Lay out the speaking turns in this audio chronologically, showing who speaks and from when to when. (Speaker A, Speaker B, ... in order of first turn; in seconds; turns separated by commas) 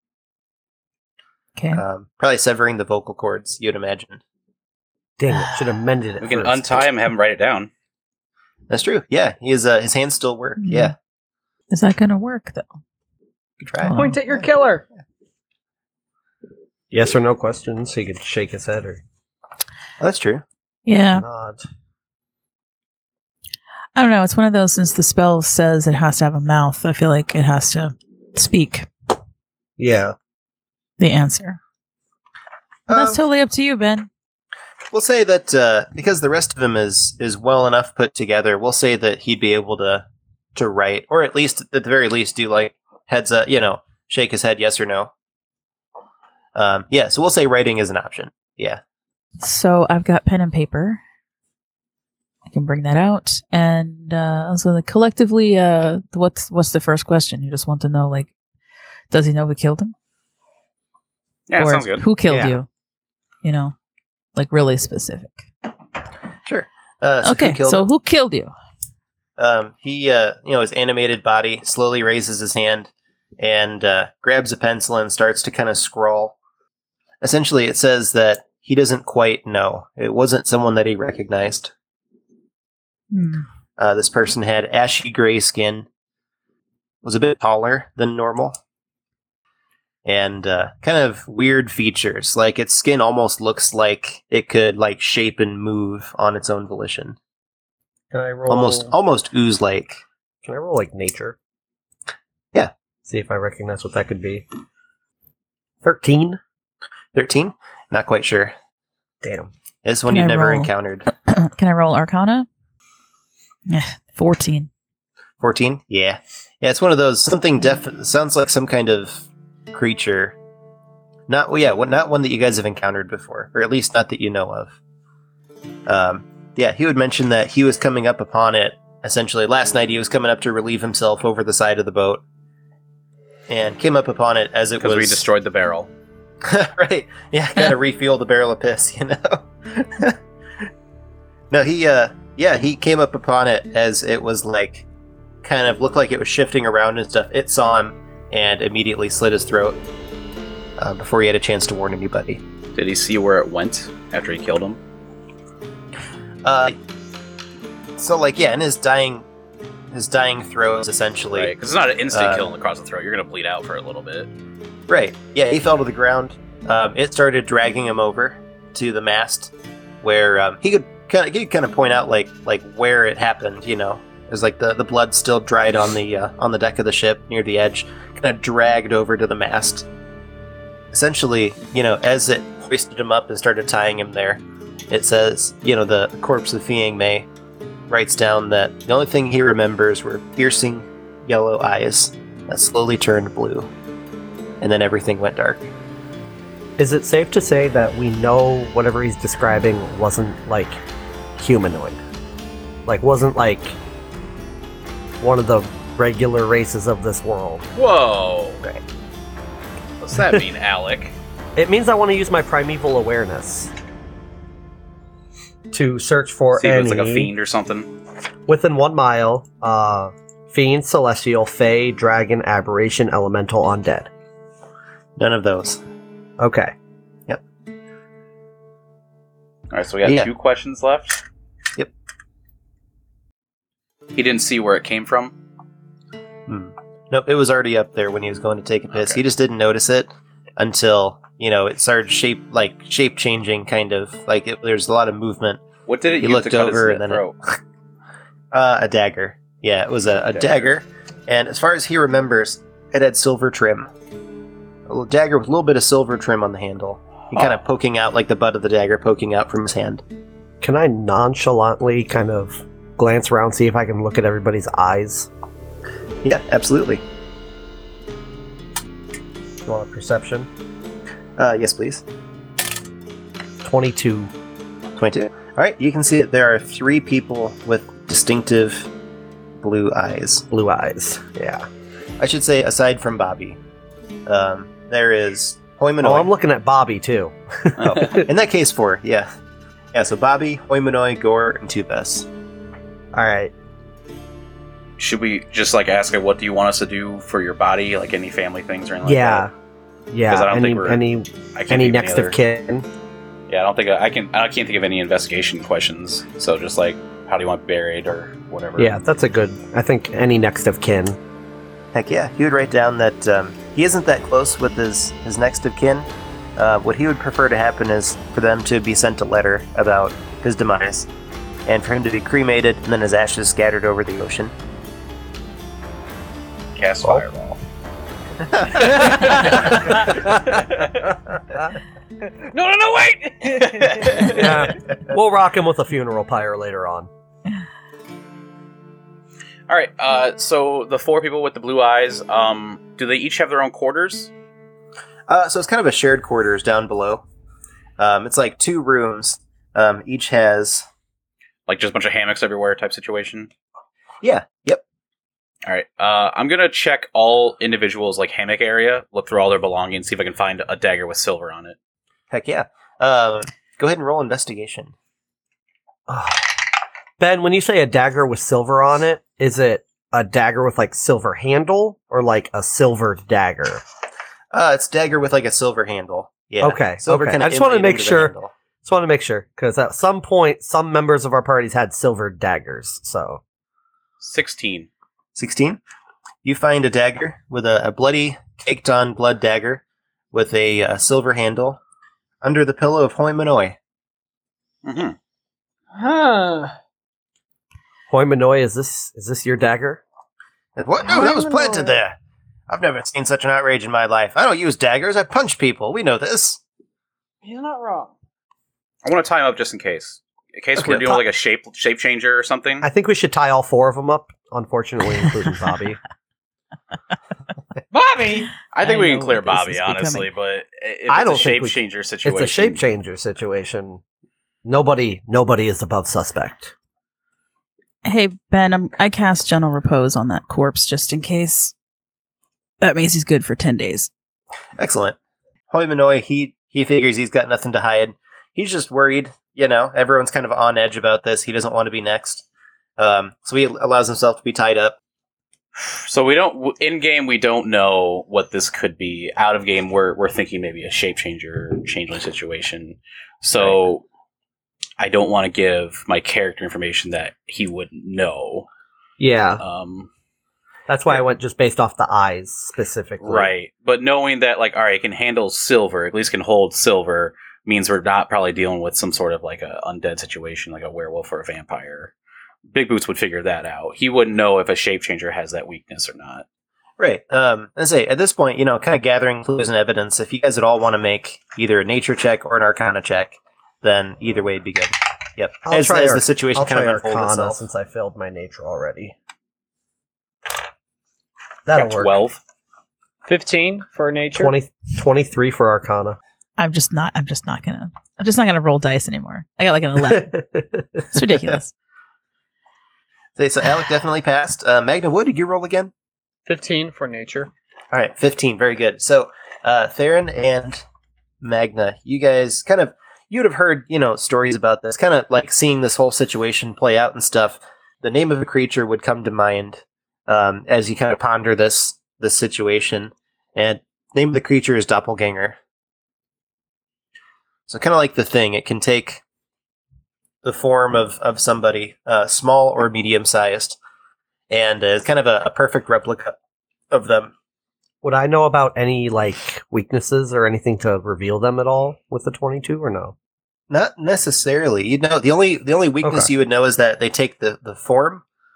Speaker A: 1.6-1.8, Speaker B: 1.7-4.2, Speaker C: 5.2-6.8, Speaker A: 5.3-5.6, Speaker D: 6.2-7.7, Speaker B: 8.7-10.9, Speaker A: 10.6-10.9, Speaker A: 11.7-12.8, Speaker B: 13.6-13.9, Speaker A: 13.8-14.2, Speaker E: 13.9-14.8, Speaker C: 16.9-19.0, Speaker B: 20.0-20.4, Speaker A: 20.9-21.2, Speaker C: 21.1-21.6, Speaker A: 23.9-28.9, Speaker C: 29.8-30.1, Speaker A: 31.0-31.6, Speaker B: 32.9-33.2, Speaker A: 32.9-34.1, Speaker B: 34.9-45.1, Speaker B: 46.5-48.8, Speaker A: 49.4-51.0, Speaker A: 52.5-58.3, Speaker A: 59.1-59.9, Speaker D: 61.5-62.0, Speaker A: 61.6-62.7, Speaker C: 62.3-62.6, Speaker A: 63.4-63.8, Speaker A: 64.4-65.4, Speaker B: 66.5-67.9, Speaker A: 67.2-68.5, Speaker B: 69.4-76.4, Speaker B: 77.2-81.7, Speaker A: 83.1-83.5, Speaker B: 83.8-85.9, Speaker B: 87.0-88.6, Speaker B: 90.0-97.2, Speaker C: 98.1-98.9, Speaker B: 98.5-100.0, Speaker C: 100.4-101.4, Speaker C: 103.0-104.5, Speaker C: 105.8-106.4, Speaker B: 107.1-108.5, Speaker C: 109.2-109.5, Speaker B: 109.8-111.1, Speaker A: 110.1-112.5, Speaker A: 113.7-114.7, Speaker B: 115.4-120.4, Speaker B: 121.3-124.8, Speaker B: 125.9-132.2, Speaker B: 133.5-135.2, Speaker D: 134.8-135.9, Speaker B: 136.4-140.2, Speaker B: 141.5-144.8, Speaker B: 145.4-149.8, Speaker B: 150.8-152.4, Speaker D: 152.8-154.8, Speaker B: 156.4-156.8, Speaker B: 158.0-159.3, Speaker B: 159.9-161.5, Speaker D: 161.3-164.3, Speaker B: 162.1-162.5, Speaker B: 164.9-179.9, Speaker B: 180.9-187.3, Speaker B: 187.9-193.7, Speaker B: 194.6-195.7, Speaker C: 196.8-200.8, Speaker C: 201.4-202.0, Speaker C: 202.9-203.8, Speaker C: 205.2-207.7, Speaker D: 207.8-208.6, Speaker D: 210.0-211.1, Speaker C: 210.2-210.4, Speaker C: 211.6-213.7, Speaker C: 215.7-217.3, Speaker D: 216.6-217.9, Speaker C: 218.5-224.1, Speaker B: 225.2-225.8, Speaker C: 226.4-226.7, Speaker D: 229.7-231.2, Speaker B: 230.0-230.3, Speaker D: 234.1-235.3, Speaker B: 236.5-245.6, Speaker D: 238.9-239.2, Speaker D: 245.9-247.4, Speaker B: 246.2-247.6, Speaker B: 248.5-253.9, Speaker D: 250.3-250.7, Speaker B: 254.9-260.0, Speaker C: 260.6-265.3, Speaker B: 266.2-267.0, Speaker C: 269.6-270.5, Speaker B: 271.4-272.0, Speaker C: 273.6-274.3, Speaker B: 275.0-278.9, Speaker B: 279.6-280.4, Speaker C: 280.5-281.7, Speaker B: 282.2-283.6, Speaker B: 284.3-286.3, Speaker C: 286.0-288.3, Speaker D: 287.8-288.1, Speaker B: 287.8-289.3, Speaker B: 289.9-292.3, Speaker C: 293.1-293.5, Speaker D: 295.0-299.5, Speaker C: 299.0-299.5, Speaker C: 300.1-302.9, Speaker D: 300.3-301.0, Speaker D: 301.5-302.4, Speaker D: 303.5-308.9, Speaker C: 308.8-311.2, Speaker B: 311.9-321.1, Speaker B: 321.7-324.5, Speaker D: 326.8-327.6, Speaker D: 328.8-330.0, Speaker C: 328.8-330.6, Speaker E: 332.4-334.3, Speaker D: 333.8-334.4, Speaker C: 334.3-337.1, Speaker D: 339.7-344.3, Speaker B: 345.3-347.2, Speaker B: 348.0-350.9, Speaker D: 351.7-353.5, Speaker B: 354.2-354.8, Speaker D: 355.7-361.8, Speaker B: 362.3-364.9, Speaker C: 366.1-366.5, Speaker C: 367.2-373.8, Speaker B: 374.5-378.5, Speaker C: 376.6-383.4, Speaker D: 384.2-384.9, Speaker B: 385.4-385.8, Speaker B: 386.4-389.8, Speaker B: 390.3-391.8, Speaker B: 392.4-393.8, Speaker D: 394.9-395.2, Speaker E: 395.9-396.7, Speaker C: 398.1-400.0, Speaker B: 400.8-402.1, Speaker E: 401.1-402.0, Speaker B: 402.7-406.6, Speaker E: 407.4-408.1, Speaker D: 409.0-412.9, Speaker B: 410.8-411.2, Speaker C: 412.8-416.0, Speaker D: 418.0-422.8, Speaker A: 418.8-420.3, Speaker C: 421.1-424.0, Speaker C: 424.6-426.7, Speaker A: 428.0-431.7, Speaker A: 432.8-434.1, Speaker B: 434.8-435.2, Speaker B: 435.7-442.4, Speaker B: 443.0-445.0, Speaker D: 445.8-454.1, Speaker D: 455.0-458.7, Speaker C: 459.2-459.6, Speaker D: 459.6-460.1, Speaker C: 460.9-463.5, Speaker D: 463.2-472.1, Speaker D: 472.7-476.4, Speaker B: 477.0-487.6, Speaker C: 485.6-489.1, Speaker C: 491.7-492.2, Speaker D: 491.7-492.4, Speaker E: 493.2-494.6, Speaker C: 494.3-496.2, Speaker A: 496.6-500.3, Speaker C: 500.1-501.0, Speaker A: 501.1-501.7, Speaker B: 503.4-505.9, Speaker E: 506.5-507.5, Speaker B: 507.9-510.8, Speaker B: 511.4-525.6, Speaker B: 527.7-529.2, Speaker B: 530.4-533.8, Speaker B: 534.5-536.4, Speaker B: 536.9-537.3, Speaker C: 538.0-543.1, Speaker B: 543.7-548.2, Speaker C: 546.0-546.3